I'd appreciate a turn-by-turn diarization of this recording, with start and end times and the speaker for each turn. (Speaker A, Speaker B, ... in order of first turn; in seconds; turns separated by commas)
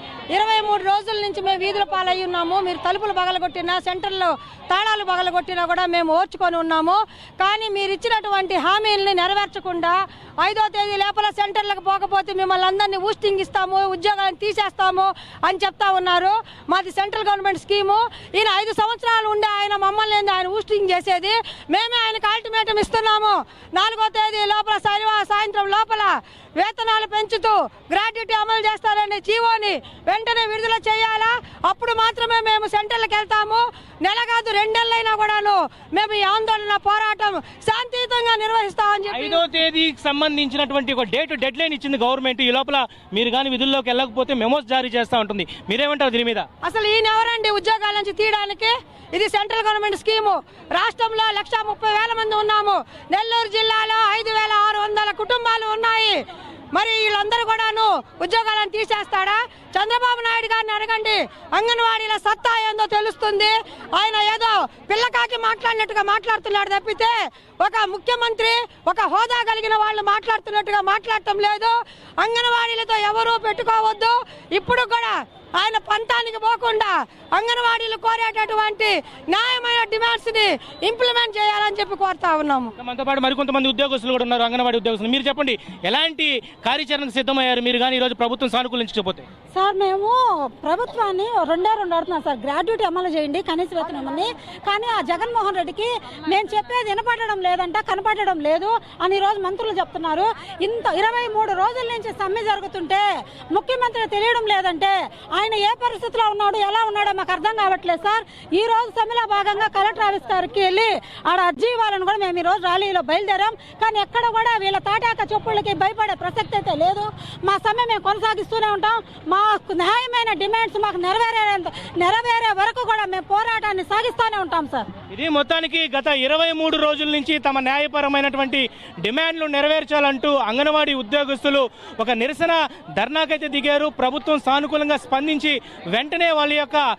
Speaker A: 0.3-39.4, Speaker B: 39.1-46.5, Speaker A: 46.6-56.2, Speaker A: 56.7-82.7, Speaker B: 82.8-89.2, Speaker C: 89.5-124.9, Speaker B: 125.1-136.8